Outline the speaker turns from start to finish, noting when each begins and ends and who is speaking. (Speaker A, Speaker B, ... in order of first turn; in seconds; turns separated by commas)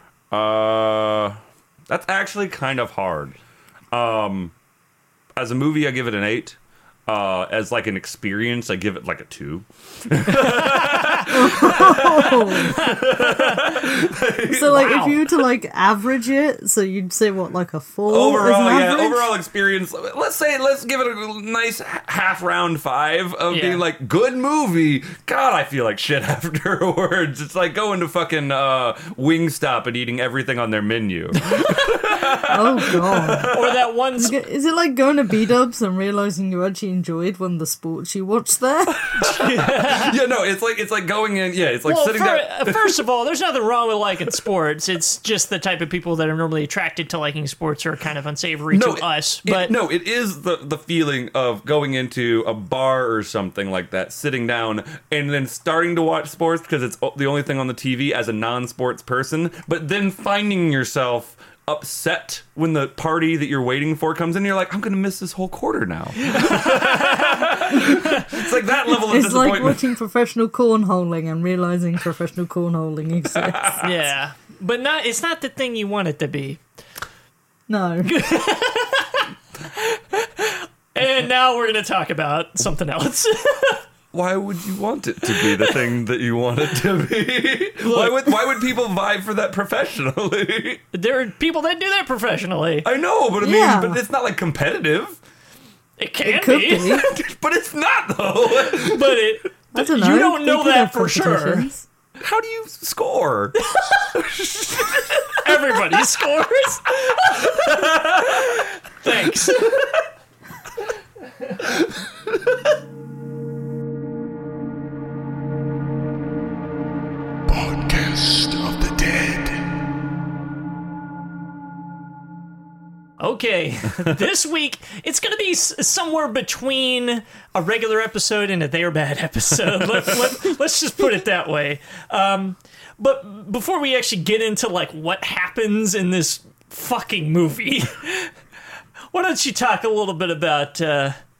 Speaker A: 0.3-3.4, Speaker A: 3.9-4.5, Speaker A: 5.4-15.1, Speaker B: 10.5-11.3, Speaker C: 11.2-12.8, Speaker B: 12.7-13.8, Speaker C: 14.5-19.3, Speaker B: 14.8-15.2, Speaker A: 18.1-33.8, Speaker B: 23.5-23.8, Speaker C: 32.4-33.5, Speaker B: 33.5-34.4, Speaker C: 34.2-39.4, Speaker A: 39.1-43.0, Speaker B: 39.3-40.2, Speaker B: 41.9-49.7, Speaker A: 48.7-69.8, Speaker B: 66.3-68.3, Speaker C: 68.9-73.8, Speaker A: 73.3-74.0, Speaker B: 73.8-76.6, Speaker C: 77.7-78.1, Speaker B: 78.0-83.8, Speaker A: 84.1-90.8, Speaker B: 85.4-85.8, Speaker B: 87.8-88.6, Speaker B: 90.9-92.9, Speaker A: 92.8-95.2, Speaker C: 93.4-94.0, Speaker B: 96.0-97.1, Speaker C: 96.2-97.0, Speaker A: 97.0-99.3, Speaker B: 98.7-101.7, Speaker C: 99.7-101.9, Speaker A: 102.2-105.8, Speaker B: 104.8-109.8, Speaker A: 107.3-108.6, Speaker D: 117.5-119.7, Speaker B: 123.2-138.3, Speaker B: 139.1-141.2